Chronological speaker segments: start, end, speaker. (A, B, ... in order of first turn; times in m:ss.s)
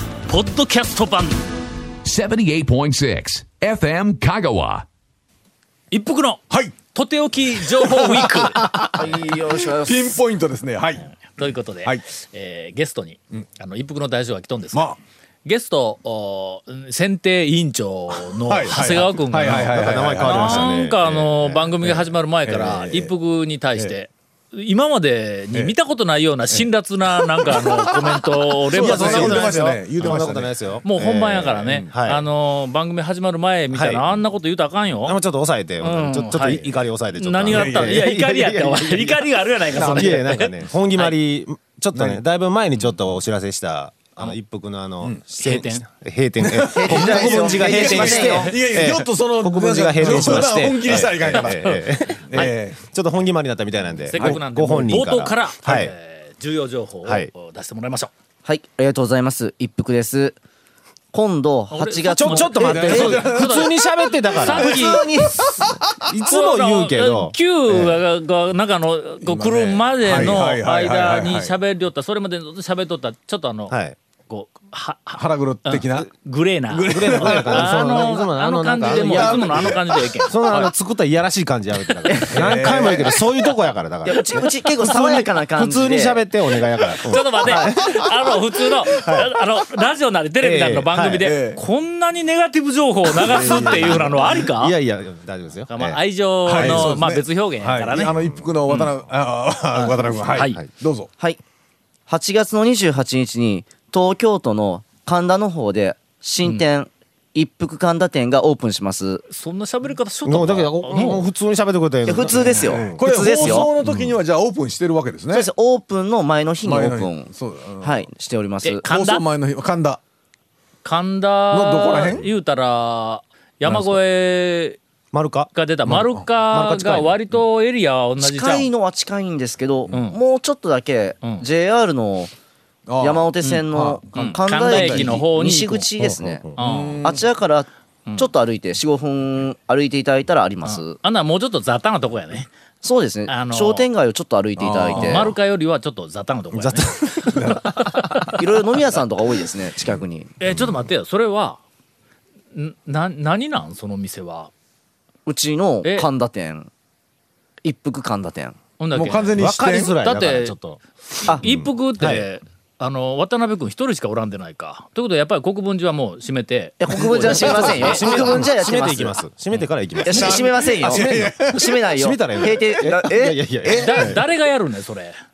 0:00.3-0:01.4 A
0:02.0-0:04.8 B
0:05.9-0:08.7 A
0:07.6-0:11.1 C
0:08.9-0:10.2 D
0:11.3-0:14.9 A
0:14.7-0:15.0 C
0:15.4-0:30.2 A
0:18.3-0:20.7 C
0:19.3-0:22.0 E
0:22.5-0:23.1 C
0:26.5-0:30.6 C
0:28.7-0:32.2 E
0:30.8-0:35.2 A
0:33.7-0:34.2 E
0:35.0-0:55.9 E
0:35.8-0:41.1 A
0:37.4-0:38.0 C
0:41.9-0:42.2 C
0:45.4-0:45.8 A
0:46.4-0:52.8 C
0:46.7-0:48.5 D
0:50.3-0:50.7 D
0:51.3-0:51.8 A
0:54.1-0:58.1 A
0:57.0-0:57.3 E
0:58.4-1:00.4 D
1:01.1-1:03.2 D
1:01.7-1:03.8 A
1:02.0-1:08.0 E
1:02.6-1:03.8 C
1:04.3-1:05.0 A
1:04.3-1:06.1 C
1:06.2-1:13.7 A
1:09.2-1:11.5 C
1:10.0-1:10.4 E
1:13.7-1:14.0 E
1:14.3-1:20.7 A
1:15.2-1:16.1 C
1:16.7-1:18.1 C
1:16.9-1:28.4 E
1:18.8-1:20.1 C
1:21.8-1:22.1 A
1:22.1-1:23.2 D
1:22.3-1:23.0 C
1:24.0-1:26.2 D
1:27.0-1:34.7 A
1:27.4-1:27.7 D
1:28.9-1:29.3 E
1:30.4-1:31.3 E
1:31.2-1:31.6 C
1:33.1-1:36.9 E
1:33.3-1:34.2 C
1:35.7-1:38.1 A
1:36.5-1:41.1 C
1:38.7-1:38.9 A
1:39.7-1:40.6 A
1:40.3-1:40.7 E
1:42.1-1:49.2 D
1:49.3-1:51.2 A
1:50.2-1:54.1 E
1:50.9-1:51.2 C
1:52.1-1:53.7 D
1:52.4-1:55.5 C
1:55.3-1:57.3 D
1:56.6-1:58.1 C
1:57.8-1:58.8 D
1:58.6-1:59.2 A
1:58.9-2:00.0 C
2:00.8-2:04.8 A
2:01.5-2:02.2 C
2:03.6-2:04.0 C
2:05.1-2:05.5 E
2:05.5-2:08.7 A
2:05.9-2:06.2 C
2:06.5-2:07.4 E
2:08.2-2:12.3 D
2:09.9-2:10.2 A
2:12.9-2:14.1 C
2:13.0-2:16.5 D
2:14.1-2:15.9 A
2:14.6-2:15.2 C
2:16.0-2:16.6 E
2:16.6-2:17.0 A
2:16.6-2:17.2 C
2:17.0-2:21.0 D
2:20.6-2:22.5 A
2:22.8-2:25.3 D
2:23.3-2:23.9 A
2:24.6-2:25.3 C
2:24.9-2:28.4 A
2:26.5-2:28.3 E
2:27.3-2:27.8 C
2:28.4-2:30.3 D
2:30.4-2:31.6 A
2:30.4-2:30.7 E
2:32.5-2:34.5 A
2:35.2-2:36.7 D
2:35.8-2:36.1 A
2:37.6-2:38.6 D
2:38.8-2:40.6 A
2:38.9-2:39.9 C
2:39.4-2:42.3 E
2:41.1-2:48.0 A
2:46.8-2:49.2 D
2:47.1-2:48.4 C
2:47.4-2:54.2 E
2:50.0-2:53.9 D
2:50.0-2:51.8 C
2:52.6-2:52.9 C
2:53.7-2:55.1 A